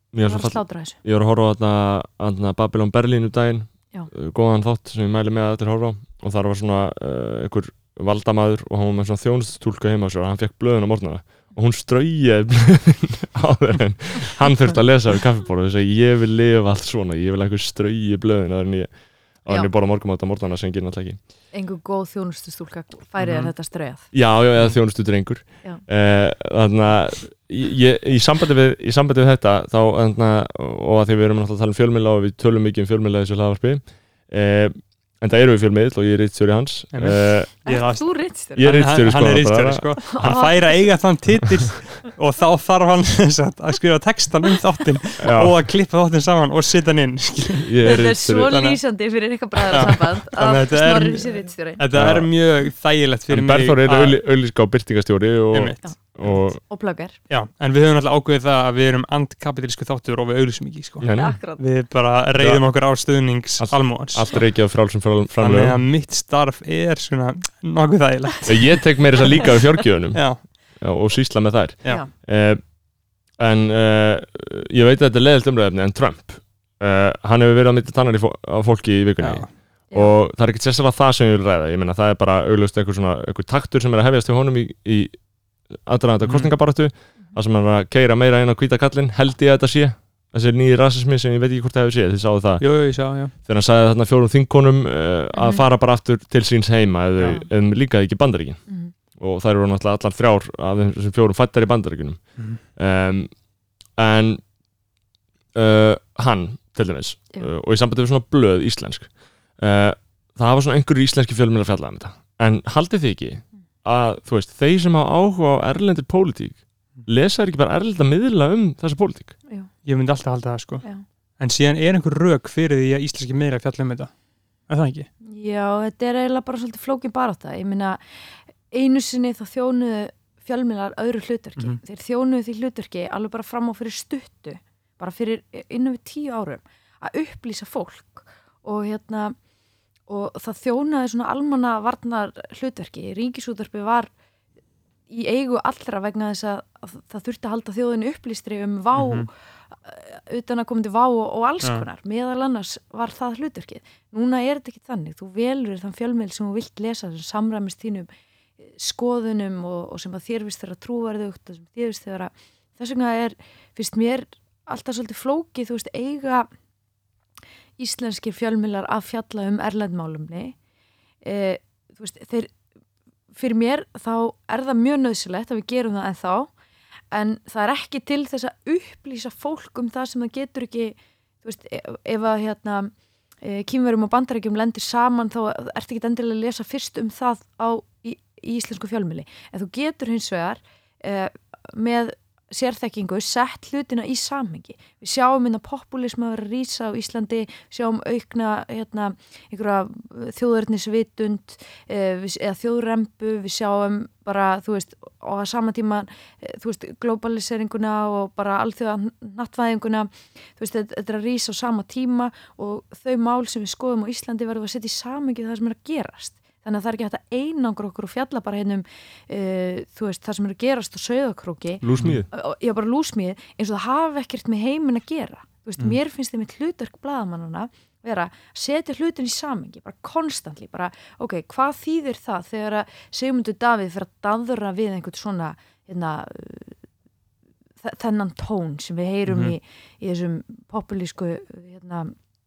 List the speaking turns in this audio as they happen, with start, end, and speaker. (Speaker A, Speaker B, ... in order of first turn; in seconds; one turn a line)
Speaker A: 0.1-21.2
Speaker B: 0.2-1.0
Speaker B: 21.5-24.1
Speaker C: 23.2-23.5
Speaker A: 24.1-37.5
Speaker C: 36.9-47.7
Speaker B: 37.6-38.8
Speaker A: 38.5-40.4
Speaker B: 40.0-40.8
Speaker A: 45.2-45.5
Speaker A: 47.6-48.6
Speaker B: 47.8-51.8
Speaker C: 48.5-48.8
Speaker C: 49.6-54.2
Speaker A: 51.9-52.3
Speaker A: 53.3-56.6
Speaker C: 55.5-55.8
Speaker B: 55.8-57.2
Speaker C: 57.3-64.4
Speaker A: 61.0-61.4
Speaker B: 61.1-61.6
Speaker A: 62.4-62.6
Speaker A: 63.6-65.8
Speaker C: 65.4-68.8
Speaker A: 68.5-72.6
Speaker C: 70.1-70.4
Speaker C: 71.8-72.1
Speaker A: 73.4-85.2
Speaker C: 79.2-79.5
Speaker B: 79.9-80.2
Speaker A: 85.8-98.6
Speaker C: 86.2-86.5
Speaker C: 92.6-93.3
Speaker B: 95.3-95.6
Speaker B: 98.7-98.9
Speaker A: 99.1-103.3
Speaker A: 103.9-104.4
Speaker A: 105.5-119.3
Speaker C: 119.8-124.1
Speaker C: 124.7-125.1
Speaker B: 125.2-139.3
Speaker B: 140.1-144.1
Speaker B: 145.1-158.1
Speaker C: 148.9-149.3
Speaker B: 158.6-166.5
Speaker B: 167.8-170.6
Speaker B: 171.2-172.5
Speaker B: 173.3-176.5
Speaker B: 177.1-236.8
Speaker A: 221.8-222.3
Speaker B: 237.8-242.1
Speaker C: 239.3-239.6